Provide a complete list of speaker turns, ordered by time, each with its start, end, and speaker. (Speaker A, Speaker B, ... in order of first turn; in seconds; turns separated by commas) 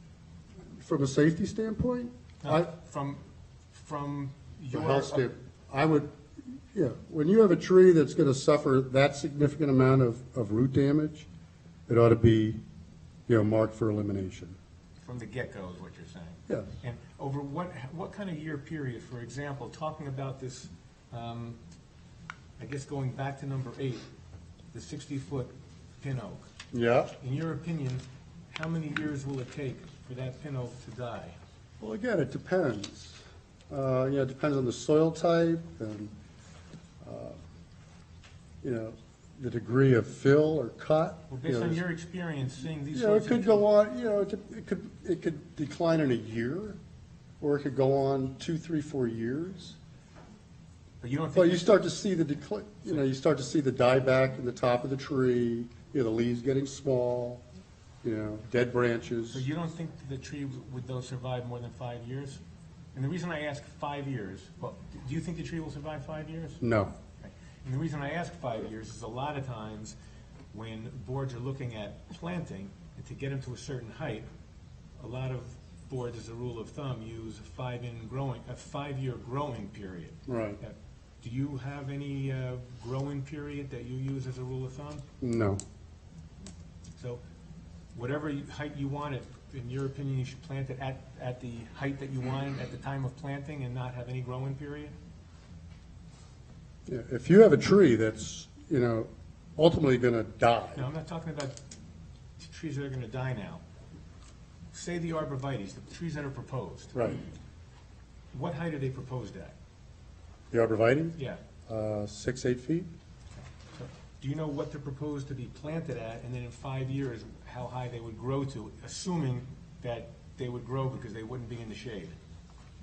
Speaker A: 0.7-2.7, Speaker B: 2.4-3.2, Speaker B: 3.7-5.2, Speaker A: 4.7-11.3, Speaker A: 11.9-12.6, Speaker A: 13.3-14.6, Speaker B: 15.0-21.6, Speaker B: 22.6-24.1, Speaker B: 24.7-26.5, Speaker A: 26.7-27.1, Speaker B: 27.2-31.4, Speaker A: 31.8-36.1, Speaker A: 37.0-37.4, Speaker A: 38.6-41.8, Speaker B: 41.3-43.6, Speaker A: 42.9-46.8, Speaker A: 47.4-49.8, Speaker B: 51.0-51.8, Speaker A: 51.3-57.4, Speaker A: 58.0-59.5, Speaker B: 59.3-62.4, Speaker B: 62.9-66.6, Speaker A: 66.6-66.9, Speaker B: 67.2-70.0, Speaker B: 70.5-74.3, Speaker B: 75.0-85.0, Speaker A: 80.3-80.6, Speaker A: 85.2-85.6, Speaker B: 87.9-94.9, Speaker A: 96.9-100.9, Speaker B: 100.8-101.6, Speaker B: 102.4-103.6, Speaker B: 104.7-107.0, Speaker A: 106.9-107.2, Speaker B: 108.3-109.5, Speaker A: 110.5-111.2, Speaker A: 111.7-112.9, Speaker B: 113.7-122.2